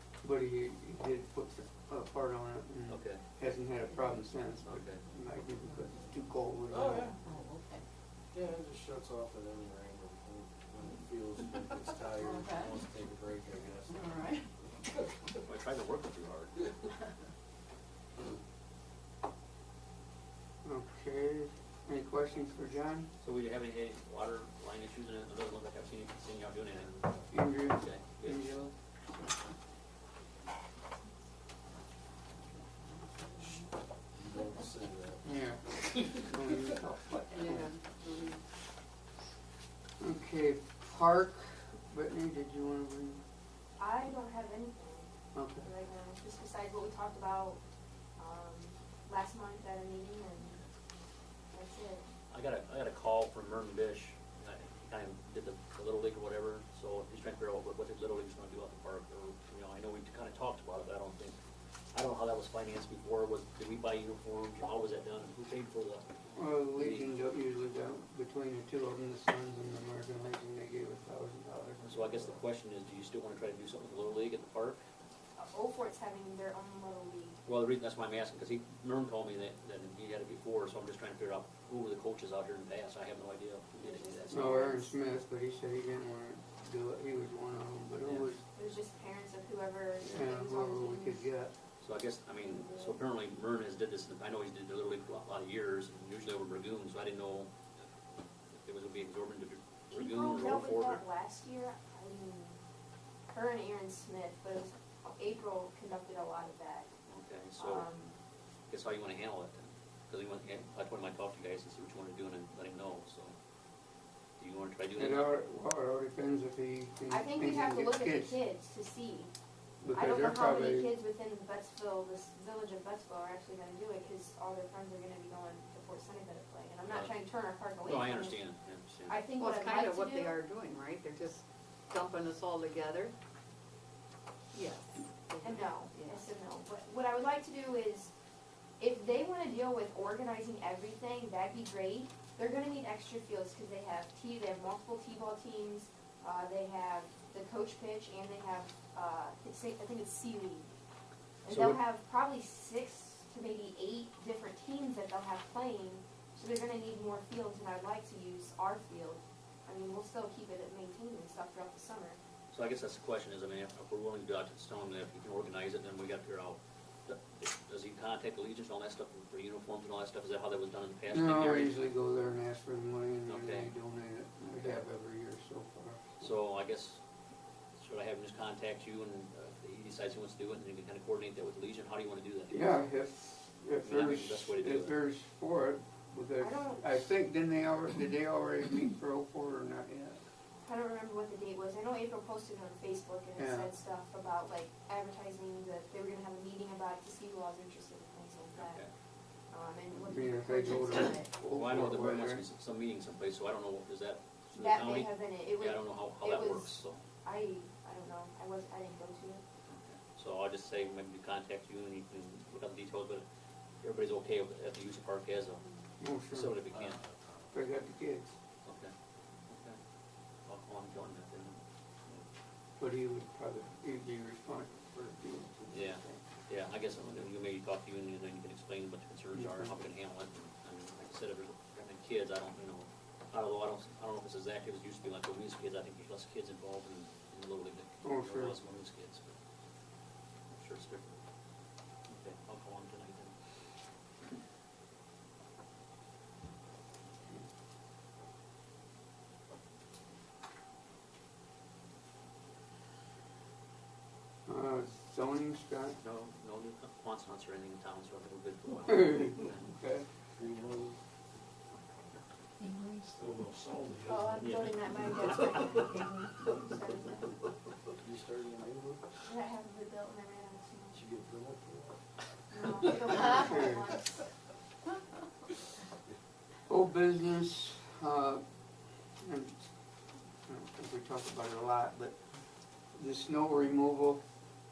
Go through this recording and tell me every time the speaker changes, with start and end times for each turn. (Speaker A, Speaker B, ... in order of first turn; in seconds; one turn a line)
Speaker A: 0.2-7.2
Speaker B: 2.9-3.2
Speaker B: 4.6-5.0
Speaker C: 6.7-7.2
Speaker D: 7.2-7.8
Speaker C: 8.3-14.9
Speaker D: 14.0-14.4
Speaker B: 15.3-16.8
Speaker A: 20.6-23.1
Speaker B: 23.2-28.5
Speaker A: 27.3-28.7
Speaker D: 33.4-33.6
Speaker C: 34.1-35.3
Speaker A: 35.2-37.7
Speaker D: 37.3-38.4
Speaker A: 40.0-43.2
Speaker E: 43.8-45.1
Speaker A: 45.3-45.6
Speaker E: 45.6-47.6
Speaker E: 48.2-50.6
Speaker E: 51.5-52.0
Speaker B: 52.3-61.4
Speaker B: 61.9-67.2
Speaker A: 66.3-72.4
Speaker B: 71.8-74.8
Speaker E: 75.4-77.4
Speaker B: 77.5-84.8
Speaker E: 83.8-84.9
Speaker A: 84.3-88.4
Speaker B: 88.0-88.3
Speaker E: 88.6-91.2
Speaker A: 90.1-91.5
Speaker B: 91.8-97.5
Speaker E: 92.4-93.0
Speaker B: 98.5-101.0
Speaker E: 99.9-102.6
Speaker E: 103.3-106.9
Speaker B: 107.1-107.9
Speaker E: 107.6-108.1
Speaker B: 108.7-113.3
Speaker B: 114.4-115.3
Speaker A: 115.0-118.4
Speaker E: 117.1-119.3
Speaker A: 119.8-120.9
Speaker E: 119.9-128.4
Speaker B: 126.8-127.1
Speaker B: 127.8-129.2
Speaker E: 129.1-130.3
Speaker D: 129.4-133.1
Speaker D: 134.5-136.2
Speaker E: 135.4-138.1
Speaker E: 138.8-150.7
Speaker E: 151.4-162.2
Speaker B: 151.5-151.8
Speaker B: 162.5-171.9
Speaker A: 171.1-176.3
Speaker B: 173.3-173.7
Speaker B: 174.4-174.8
Speaker B: 176.2-177.0
Speaker B: 177.8-182.8
Speaker A: 182.5-190.2
Speaker B: 183.8-184.9
Speaker E: 186.4-187.1
Speaker E: 190.6-198.8
Speaker A: 193.4-193.7
Speaker B: 198.5-198.9
Speaker E: 199.5-201.3
Speaker A: 199.9-202.4
Speaker B: 201.4-207.0
Speaker E: 204.5-209.4
Speaker B: 209.7-213.2
Speaker B: 213.8-215.6
Speaker A: 216.0-216.7
Speaker B: 216.2-217.0
Speaker C: 216.7-217.5
Speaker A: 217.5-218.3
Speaker B: 218.6-218.9
Speaker B: 219.5-219.8
Speaker B: 220.4-222.2
Speaker A: 222.8-226.2
Speaker B: 225.7-239.4
Speaker A: 229.3-229.7
Speaker A: 238.0-238.5
Speaker B: 240.5-241.2
Speaker B: 242.1-243.3
Speaker A: 254.4-256.0
Speaker B: 256.0-259.8
Speaker A: 258.9-260.1
Speaker C: 260.4-261.0
Speaker C: 263.1-264.4
Speaker E: 264.1-267.4
Speaker B: 264.4-264.7
Speaker B: 265.2-265.6
Speaker C: 267.9-269.1
Speaker E: 269.2-271.0
Speaker C: 270.9-272.0
Speaker E: 272.5-274.2
Speaker A: 273.3-273.9
Speaker A: 276.7-278.4
Speaker A: 279.2-279.7
Speaker A: 280.4-282.2
Speaker A: 282.9-284.2